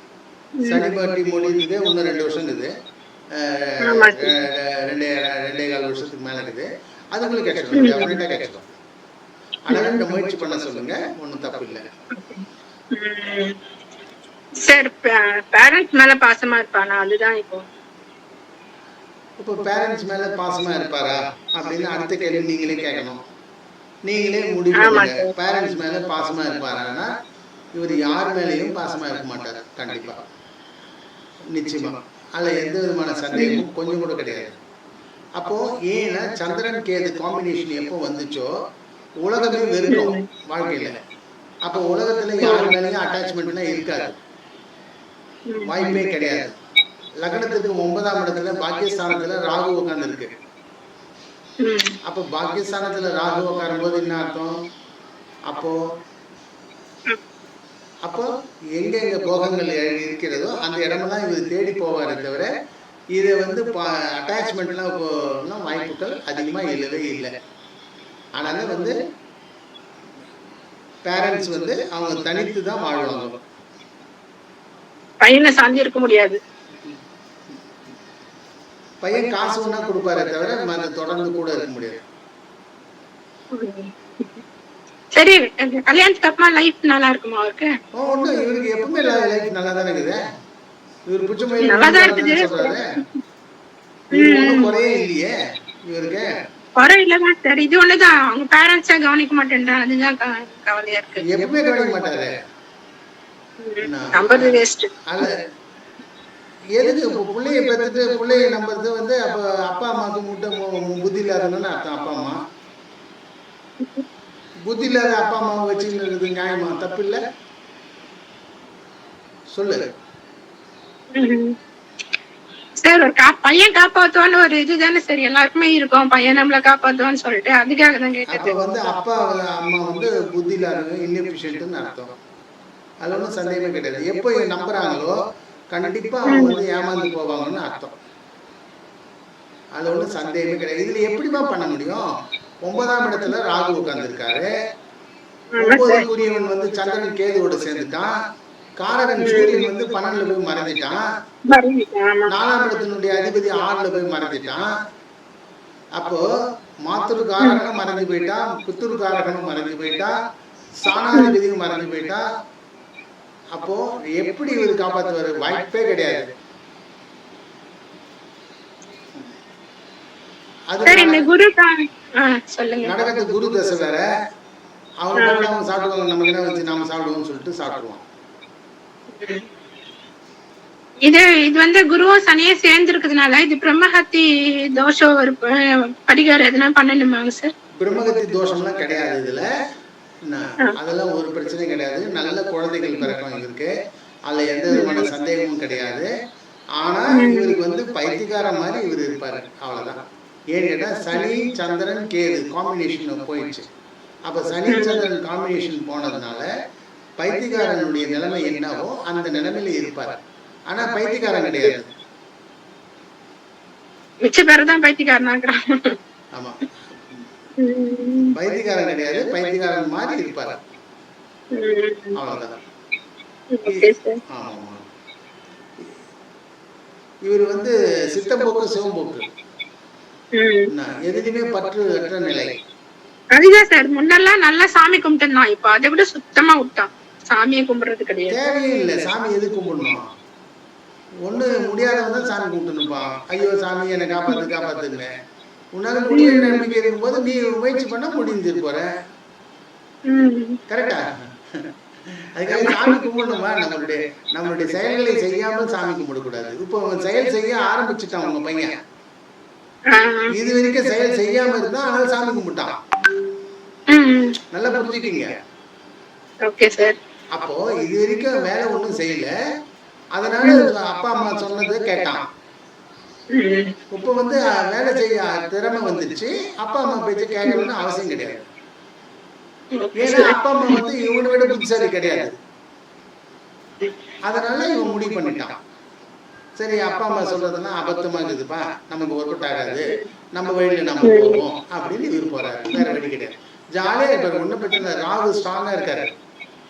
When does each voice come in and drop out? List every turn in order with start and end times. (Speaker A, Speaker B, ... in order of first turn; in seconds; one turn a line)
Speaker A: 0.6-0.9
Speaker B: 0.6-2.7
Speaker B: 3.4-8.7
Speaker A: 3.9-4.4
Speaker A: 7.7-8.2
Speaker B: 9.7-11.8
Speaker A: 9.7-10.1
Speaker A: 12.1-13.6
Speaker A: 14.6-17.7
Speaker B: 19.4-23.2
Speaker B: 24.1-27.1
Speaker A: 24.8-25.3
Speaker B: 27.8-30.2
Speaker B: 31.5-34.6
Speaker A: 33.3-33.6
Speaker B: 35.4-38.5
Speaker B: 39.2-41.0
Speaker A: 39.9-40.2
Speaker B: 41.6-44.2
Speaker A: 42.4-42.7
Speaker A: 45.5-46.0
Speaker B: 45.6-46.5
Speaker B: 47.2-50.3
Speaker A: 51.6-52.0
Speaker B: 52.0-54.5
Speaker B: 55.5-55.8
Speaker B: 58.1-62.5
Speaker B: 63.1-67.3
Speaker B: 68.4-69.0
Speaker B: 71.1-73.4
Speaker A: 75.2-76.4
Speaker B: 79.0-82.0
Speaker A: 83.5-84.3
Speaker A: 85.1-87.7
Speaker B: 88.0-90.2
Speaker B: 91.1-92.8
Speaker A: 91.6-92.8
Speaker B: 94.1-95.3
Speaker A: 94.1-94.7
Speaker B: 95.9-96.3
Speaker A: 96.8-101.2
Speaker B: 101.2-102.3
Speaker A: 103.6-104.9
Speaker B: 103.8-105.4
Speaker B: 106.8-112.4
Speaker B: 114.7-117.2
Speaker B: 119.5-119.9
Speaker A: 121.1-121.6
Speaker A: 122.8-128.5
Speaker B: 128.3-132.1
Speaker B: 133.0-135.2
Speaker B: 135.7-137.9
Speaker A: 136.3-136.6
Speaker B: 139.8-142.0
Speaker B: 142.6-144.5
Speaker A: 145.6-146.1
Speaker B: 145.6-148.1
Speaker B: 148.8-151.0
Speaker A: 149.2-149.7
Speaker A: 151.5-152.3
Speaker B: 152.3-154.7
Speaker B: 156.0-156.2
Speaker B: 156.9-160.1
Speaker B: 160.8-162.2
Speaker A: 161.1-161.3
Speaker B: 163.6-166.3
Speaker B: 170.7-171.3
Speaker A: 170.8-172.9
Speaker B: 172.8-174.1
Speaker B: 175.0-178.0
Speaker A: 175.2-175.5
Speaker A: 179.1-179.5
Speaker A: 181.1-187.5
Speaker B: 187.8-189.4
Speaker B: 190.3-193.7
Speaker B: 194.3-196.1
Speaker A: 194.7-195.1
Speaker B: 196.8-203.7
Speaker A: 197.1-197.6
Speaker B: 204.3-206.5
Speaker A: 204.7-205.1
Speaker B: 207.2-211.9
Speaker A: 214.2-216.0
Speaker B: 216.3-217.2
Speaker A: 217.6-218.3
Speaker B: 218.3-220.6
Speaker A: 221.5-222.2
Speaker B: 222.1-222.6
Speaker A: 223.5-224.2
Speaker B: 223.7-224.8
Speaker B: 227.2-229.3
Speaker A: 230.3-230.7
Speaker B: 230.7-232.6
Speaker A: 233.3-238.4
Speaker B: 238.3-240.0
Speaker B: 241.3-245.1
Speaker B: 245.8-248.9
Speaker A: 246.1-246.7
Speaker A: 250.1-250.6
Speaker B: 250.7-251.7
Speaker B: 252.3-258.8
Speaker A: 252.5-253.0
Speaker A: 259.9-260.3
Speaker B: 260.3-262.7
Speaker A: 263.9-264.4
Speaker B: 264.5-265.4
Speaker A: 266.4-267.0
Speaker B: 267.3-269.3
Speaker B: 270.1-272.2
Speaker A: 270.4-270.7
Speaker A: 273.3-273.8
Speaker B: 273.9-278.5
Speaker A: 279.7-280.9
Speaker B: 280.0-282.3
Speaker B: 284.3-285.6
Speaker B: 286.6-296.1
Speaker A: 291.0-291.4